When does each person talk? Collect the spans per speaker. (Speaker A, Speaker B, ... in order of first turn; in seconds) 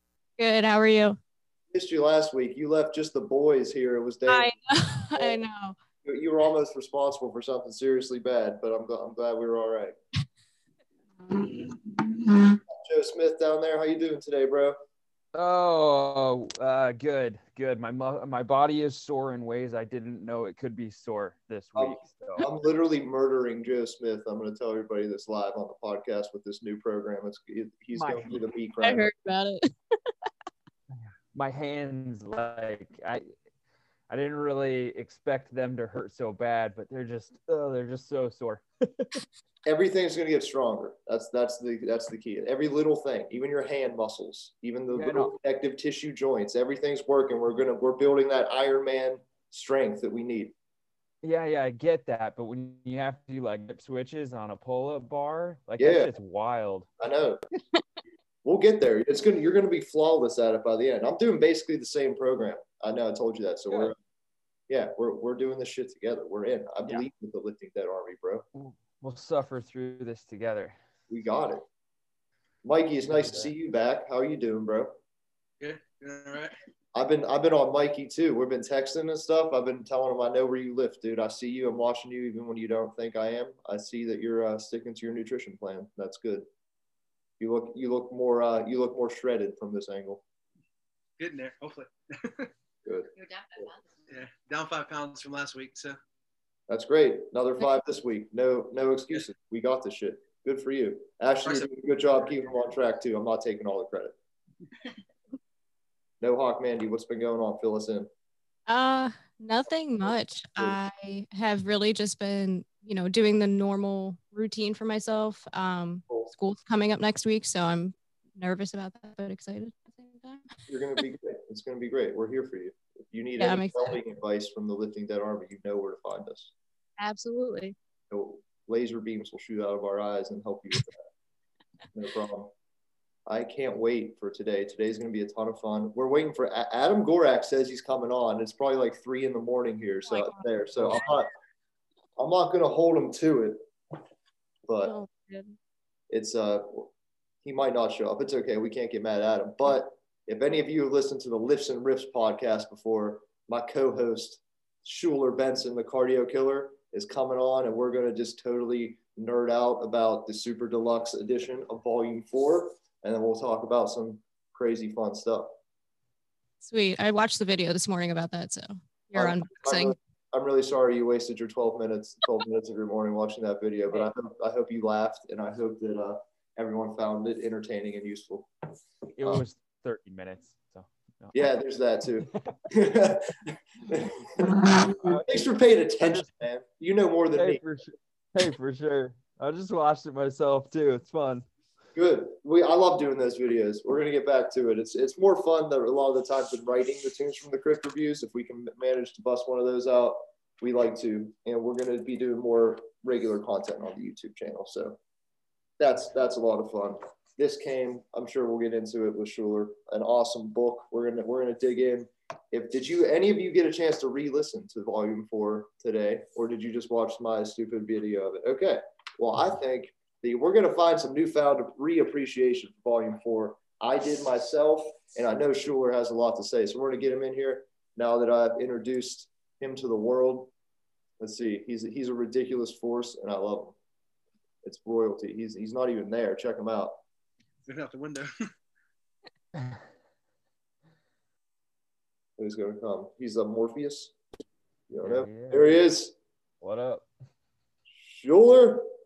Speaker A: 0.4-1.2, 4.3-5.8, 28.8-30.1, 108.7-120.5, 123.4-123.9, 127.0-127.8, 140.1-141.0, 144.8-145.6, 166.6-170.0
Speaker B: 1.7-4.5, 5.2-5.4, 6.0-9.9, 12.7-14.8, 21.8-29.1, 39.7-50.5, 55.8-56.1, 57.0-57.5, 58.5-64.0, 64.7-68.5, 71.1-71.6, 72.6-74.9, 77.0-86.5, 87.4-90.2, 92.9-93.7, 96.7-104.2, 106.2-108.1, 120.7-126.5, 128.1-131.0, 131.9-132.5, 133.3-141.3, 142.2-143.6, 144.7-144.9, 146.1-146.9, 147.4-165.5, 169.1-178.5, 181.3-187.6, 191.9-205.0, 205.8-230.5, 231.2-233.8, 234.6-237.0, 242.4-244.1, 244.9-246.1, 248.1-248.9
Speaker C: 15.3-22.5, 27.9-28.4, 31.3-33.3, 34.1-39.2, 44.9-45.4, 51.2-56.9, 68.5-70.8, 73.2-73.5, 179.2-181.3, 186.0-186.3, 187.4-191.5, 245.0-245.8, 246.6-247.1
Speaker D: 75.6-76.5, 91.2-92.5, 94.1-96.0, 237.7-238.5